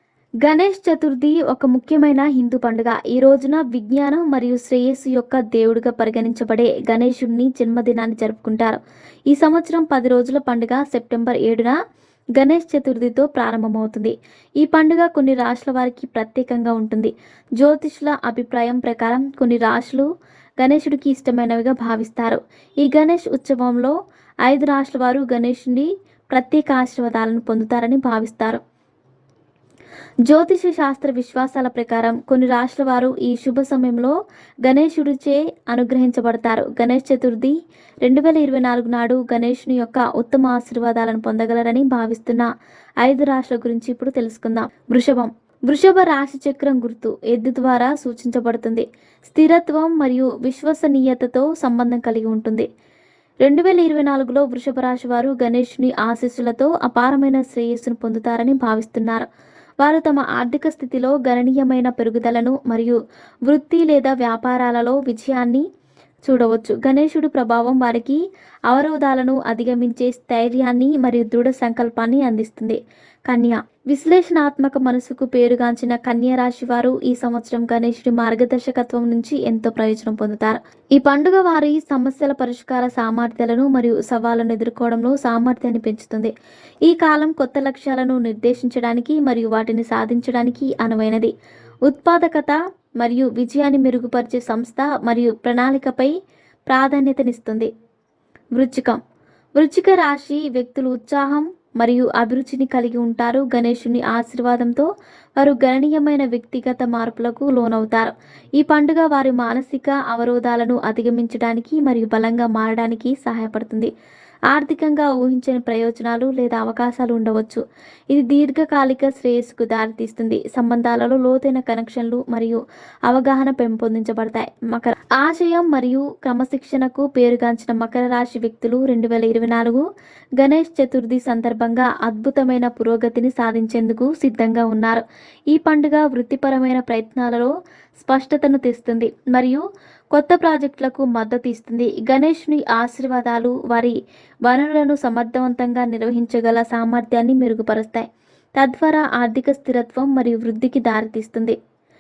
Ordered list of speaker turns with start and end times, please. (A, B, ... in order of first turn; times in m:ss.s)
0:00.4-0:08.8 A
0:09.3-0:11.7 A
0:12.4-0:20.1 A
0:20.6-0:23.9 A
0:24.4-0:28.6 A
0:30.3-0:42.5 A
0:43.0-0:52.7 A
0:53.4-0:59.3 A
0:59.8-1:03.0 A
1:03.5-1:05.6 A
1:06.2-1:26.3 A
1:26.8-1:31.3 A
1:31.8-1:36.1 A
1:36.7-1:37.7 A
1:38.6-1:39.0 A
1:39.6-1:44.9 A
1:45.4-1:53.9 A
1:54.5-2:09.8 A
2:10.4-2:31.6 A